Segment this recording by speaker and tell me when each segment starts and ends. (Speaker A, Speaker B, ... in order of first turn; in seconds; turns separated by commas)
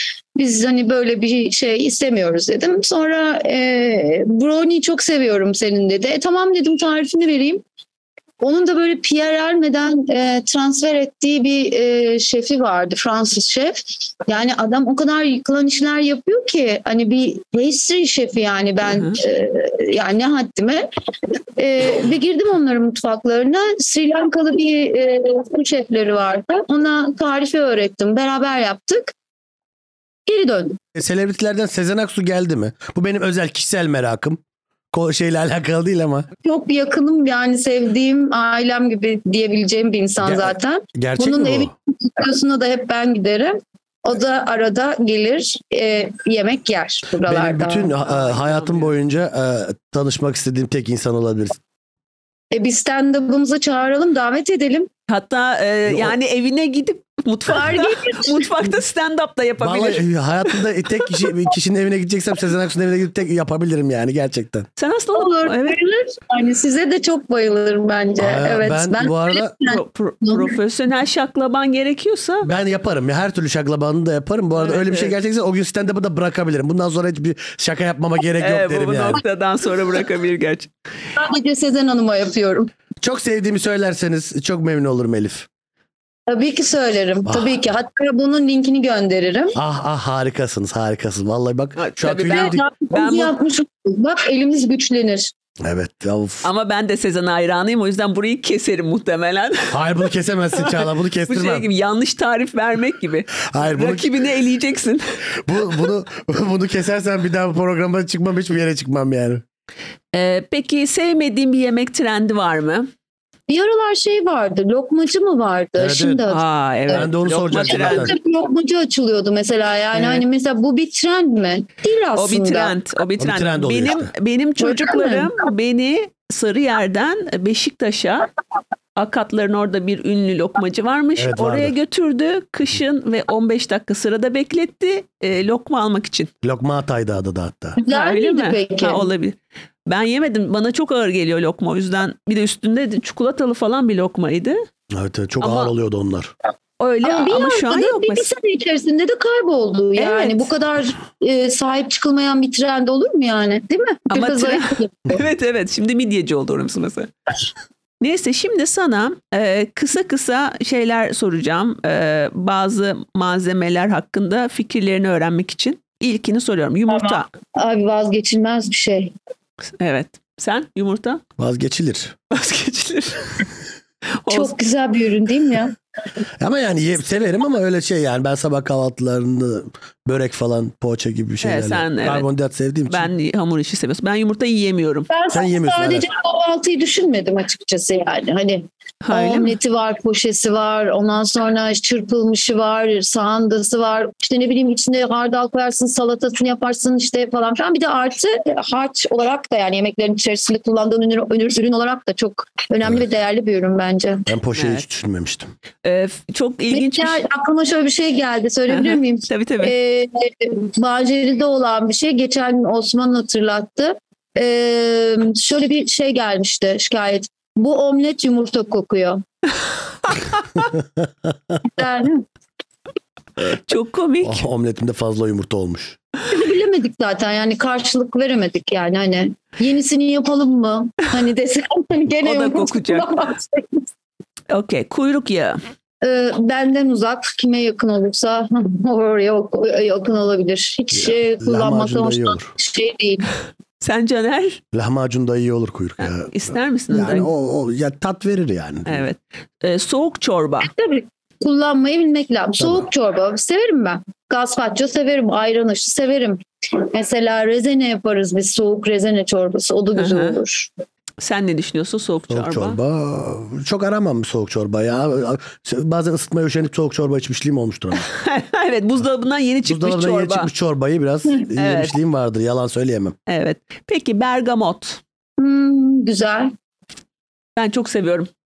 Speaker A: 0.3-7.6, Speaker A: 8.4-20.9, Speaker B: 18.9-19.2, Speaker A: 21.6-29.1, Speaker A: 30.2-30.8, Speaker C: 30.9-34.4, Speaker C: 34.9-36.3, Speaker A: 36.4-47.9, Speaker C: 40.2-41.7, Speaker C: 47.2-51.6, Speaker B: 48.0-48.9, Speaker A: 52.5-54.9, Speaker B: 55.1-60.6, Speaker C: 55.9-56.1, Speaker A: 57.5-58.5, Speaker C: 59.6-64.7, Speaker B: 64.8-65.8, Speaker A: 65.1-70.5, Speaker C: 68.2-69.5, Speaker B: 69.6-72.5, Speaker C: 72.4-79.2, Speaker B: 74.6-75.1, Speaker B: 78.4-80.7, Speaker A: 81.2-82.7, Speaker C: 83.0-85.5, Speaker A: 86.3-89.5, Speaker C: 87.2-87.6, Speaker C: 89.5-92.6, Speaker B: 91.8-93.3, Speaker A: 92.2-95.3, Speaker C: 95.6-96.5, Speaker B: 96.4-99.8, Speaker C: 99.7-101.7, Speaker B: 100.5-105.0, Speaker C: 103.5-104.2, Speaker C: 105.4-109.4, Speaker B: 110.1-112.9, Speaker A: 113.5-122.7, Speaker C: 115.8-116.2, Speaker B: 116.3-118.1, Speaker C: 116.9-118.1, Speaker B: 119.9-120.2, Speaker B: 122.2-128.3, Speaker C: 123.2-124.1, Speaker A: 124.6-125.5, Speaker B: 128.9-136.3, Speaker C: 131.2-131.7, Speaker C: 136.4-137.8, Speaker A: 137.8-139.1, Speaker B: 137.9-144.6, Speaker C: 144.9-146.3, Speaker B: 145.4-145.7, Speaker B: 146.8-148.3, Speaker A: 147.0-155.2, Speaker B: 149.9-150.5, Speaker B: 154.1-157.1, Speaker B: 158.0-167.3, Speaker A: 166.9-169.1, Speaker B: 169.8-171.2, Speaker C: 171.4-172.2, Speaker B: 172.3-173.4, Speaker B: 174.2-174.5, Speaker A: 174.3-175.8, Speaker C: 176.4-183.1, Speaker B: 181.4-182.2, Speaker B: 182.9-185.1, Speaker A: 185.1-204.3, Speaker C: 185.3-186.1, Speaker B: 189.0-189.6, Speaker C: 204.3-205.5, Speaker B: 204.6-204.8, Speaker B: 205.8-207.2, Speaker A: 206.7-219.2, Speaker B: 208.7-209.7, Speaker B: 220.0-220.7, Speaker A: 221.6-222.2, Speaker B: 223.4-224.4, Speaker C: 224.2-226.0, Speaker A: 226.3-233.8, Speaker B: 232.2-233.1, Speaker B: 234.5-235.6, Speaker A: 236.0-243.3, Speaker C: 240.9-242.5, Speaker B: 243.8-244.6, Speaker C: 244.7-249.0, Speaker B: 246.0-247.3, Speaker B: 248.8-250.7, Speaker A: 250.6-260.7, Speaker C: 252.6-252.9, Speaker B: 259.9-260.4, Speaker B: 261.2-262.8, Speaker C: 262.3-268.1, Speaker B: 268.0-270.5, Speaker C: 269.6-273.1, Speaker B: 271.6-271.9, Speaker B: 273.3-275.0, Speaker A: 275.4-276.5, Speaker B: 277.6-278.3